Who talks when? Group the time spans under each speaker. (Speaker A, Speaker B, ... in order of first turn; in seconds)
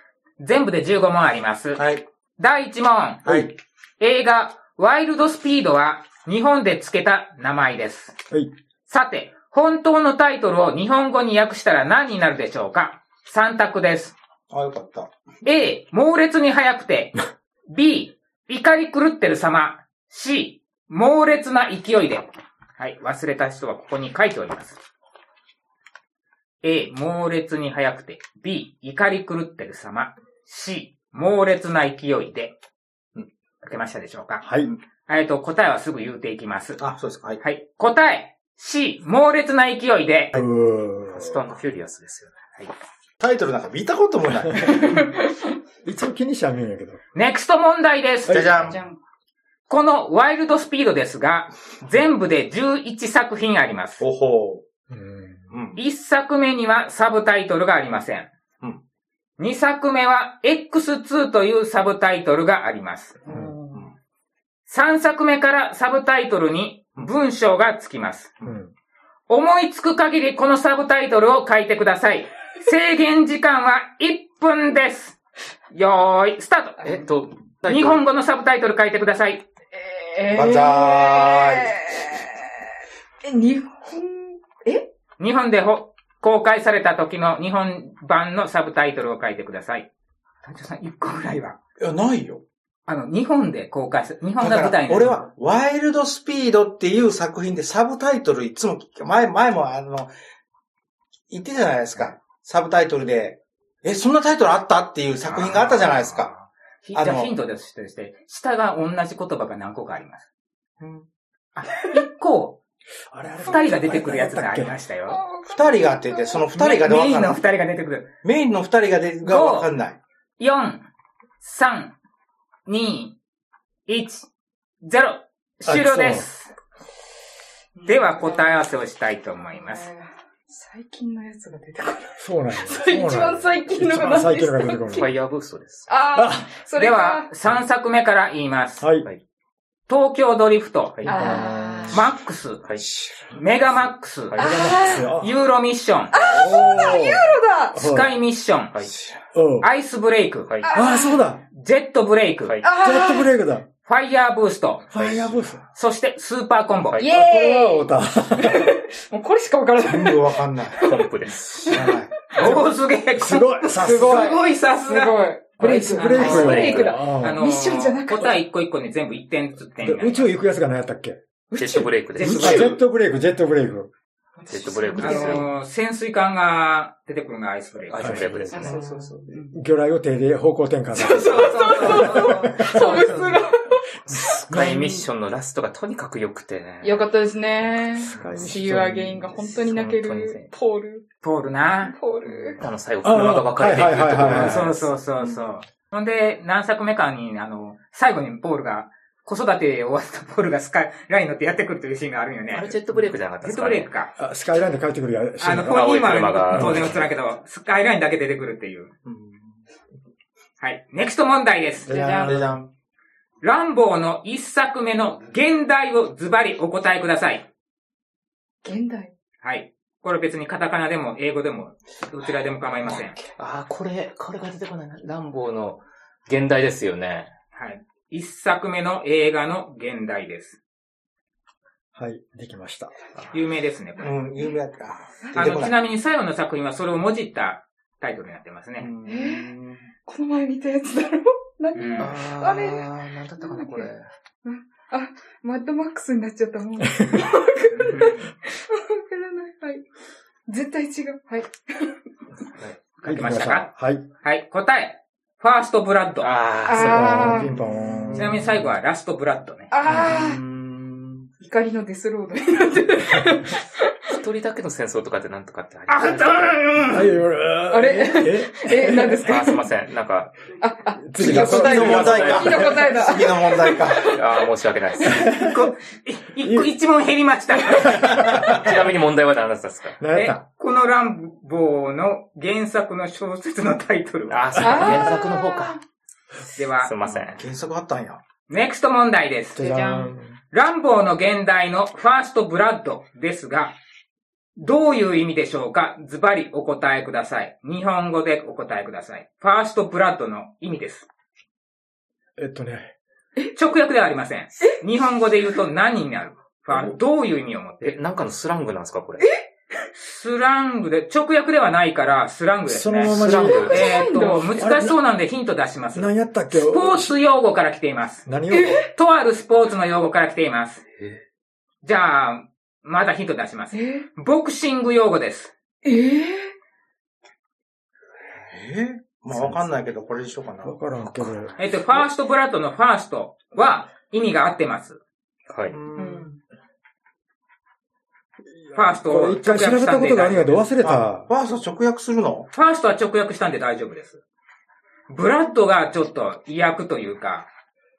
Speaker A: 0.4-1.8, 2.4-3.3, 4.0-8.2, 8.9-14.1, 15.4-24.8, 26.6-32.6, 33.6-34.4, 35.1-36.8, 37.4-40.3, 47.1-48.5, 49.7-54.0, 55.8-58.3, 59.4-63.2, 64.7-68.3, 69.3-75.2, 75.7-76.8, 77.7-79.4, 85.2-89.9, 90.4-91.6, 92.8-95.2, 105.3-106.2, 106.8-110.2, 111.5-112.6, 113.4-115.2, 116.5-118.1, 119.2-119.7, 120.4-120.8, 121.4-121.9, 122.7-123.2, 123.9-124.3, 124.8-126.5, 127.9-129.9, 136.8-138.9, 139.9-141.0, 141.9-142.6, 143.3-146.1, 147.7-148.7, 149.6-150.5, 151.5-152.6, 153.8-154.9, 155.7-157.0, 162.3-170.3, 172.2-172.7, 175.0-178.4, 181.3-183.4, 191.2-191.9, 194.3-202.8, 203.4-204.1, 205.4-208.9, 210.6-211.9, 213.4-217.4, 219.4-223.2, 227.5-230.6, 233.3-234.1, 235.3-238.9, 241.7-242.1, 247.8-248.3, 253.0-253.7, 254.2-256.3, 258.1-259.7, 265.9-267.2, 275.3-278.2, 280.1-285.0, 286.6-286.9, 288.5-289.7, 290.5-293.8, 294.6-301.1, 303.5-307.9, 310.0-320.8, 321.8-325.5, 331.6-335.0, 338.7-340.6, 342.5-344.2, 345.1-347.5
Speaker B: 1.8-2.0, 3.2-3.5, 14.5-15.1, 36.8-37.4, 43.2-44.8, 48.3-48.8, 54.0-54.6, 55.5-55.8, 80.3-81.8, 91.8-92.4, 94.4-100.1, 101.3-106.3, 106.9-107.3, 115.5-117.4, 118.2-120.0, 142.8-143.2, 148.9-149.2, 159.8-160.9, 161.7-162.1, 209.1-209.5, 212.2-212.7, 234.0-235.8, 238.8-239.9, 257.5-258.4, 259.9-261.3, 271.2-274.1, 287.0-288.2, 328.5-330.7, 335.7-336.3, 340.8-342.5
Speaker C: 34.4-34.7, 40.3-41.4, 45.8-47.0, 48.3-48.7, 54.9-55.4, 68.4-68.7, 113.1-114.8, 125.7-126.3, 132.2-135.1, 136.2-136.5, 138.8-139.1, 141.0-142.0, 144.3-145.3, 146.3-148.1, 149.3-149.7, 150.7-151.4, 152.8-153.6, 154.9-155.6, 157.0-158.7, 162.4-162.6, 163.2-164.2, 165.6-167.4, 169.8-171.2, 172.2-173.9, 178.0-178.5, 179.5-183.0, 184.5-185.0, 188.0-189.5, 193.0-194.8, 204.2-207.0, 211.8-212.6, 231.9-232.9, 247.0-247.2, 253.0-254.0, 256.7-258.7, 263.1-263.4, 266.9-269.4, 271.0-272.6, 275.0-275.7, 276.4-276.7, 277.7-278.8, 280.0-280.4, 289.6-290.4, 302.4-302.9, 312.7-313.9, 314.5-315.0, 315.9-317.1, 318.2-318.8, 330.6-332.1, 338.5-341.3
Speaker D: 41.1-42.3, 76.8-78.0, 105.3-106.2, 134.9-135.9, 144.3-144.7, 150.5-150.7, 154.9-155.4, 160.8-161.8, 166.1-166.9, 171.6-172.8, 174.5-175.5, 177.9-179.1, 184.1-187.1, 187.6-188.4, 189.5-190.5, 192.6-194.9, 202.5-203.9, 205.6-207.1, 223.4-227.3, 242.0-244.1, 256.2-257.5, 264.1-266.8, 269.2-270.3, 271.2-273.0, 274.0-275.2, 278.2-280.0, 284.3-285.8, 286.8-287.4, 307.8-309.3, 313.0-314.0, 331.0-331.5, 335.5-335.8
Speaker E: 44.7-45.5, 48.6-49.0, 63.2-63.8, 79.7-82.7, 83.2-84.9, 115.1-116.5, 127.7-128.6, 129.5-135.1, 135.9-137.3, 141.0-142.0, 144.4-145.1, 146.1-147.8, 150.6-151.3, 152.6-153.3, 157.0-160.4, 161.6-161.9, 163.7-168.4, 171.5-172.6, 174.4-175.5, 178.5-179.5, 180.9-183.9, 186.8-191.0, 191.8-192.6, 211.9-212.4, 218.6-219.1, 235.2-235.7, 239.1-239.5, 240.0-243.9, 244.4-249.8, 250.5-251.9, 256.6-257.5, 259.7-260.4, 261.4-264.2, 267.7-269.6, 270.6-274.2, 284.6-285.8, 289.6-290.1, 313.3-314.6, 318.5-318.9, 323.7-324.1, 325.8-326.5, 335.9-336.4